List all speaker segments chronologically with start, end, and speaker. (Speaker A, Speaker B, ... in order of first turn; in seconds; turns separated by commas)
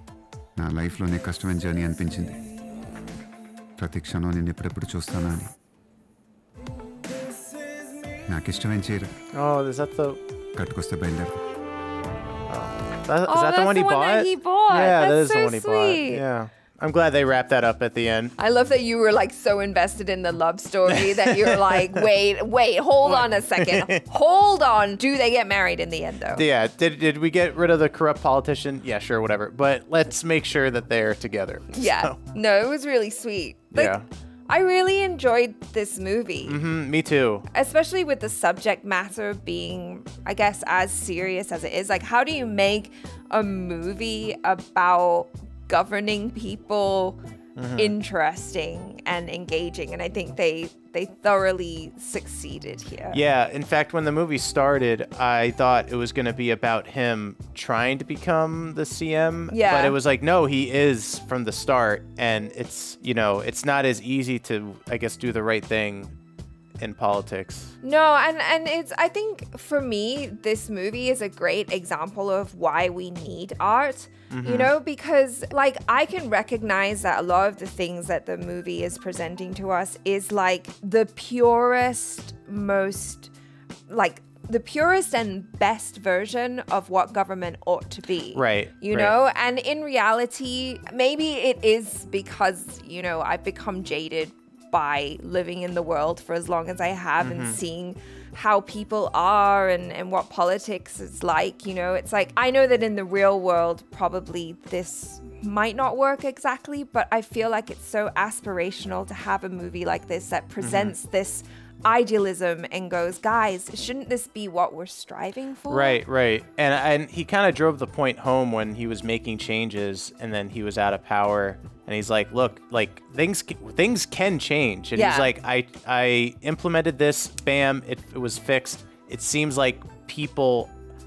Speaker A: 0.6-2.4, Speaker A: 3.8-5.5, Speaker A: 8.3-9.1, Speaker B: 9.3-10.2, Speaker A: 10.5-11.4, Speaker B: 12.5-18.3, Speaker C: 13.3-16.2, Speaker C: 18.4-26.4, Speaker B: 20.9-22.0, Speaker B: 23.0-24.0, Speaker B: 26.4-32.2, Speaker C: 31.7-34.0, Speaker B: 33.7-34.0, Speaker C: 34.5-36.6, Speaker B: 36.5-37.5, Speaker C: 37.5-47.2, Speaker B: 47.5-47.9, Speaker C: 47.8-53.2, Speaker B: 53.1-66.1, Speaker C: 59.5-60.0, Speaker B: 66.8-67.7, Speaker C: 67.8-83.3, Speaker B: 74.3-74.7, Speaker C: 83.9-116.0, Speaker B: 88.3-89.1, Speaker B: 97.2-97.6, Speaker B: 110.6-110.9, Speaker B: 115.7-130.7, Speaker C: 124.9-125.3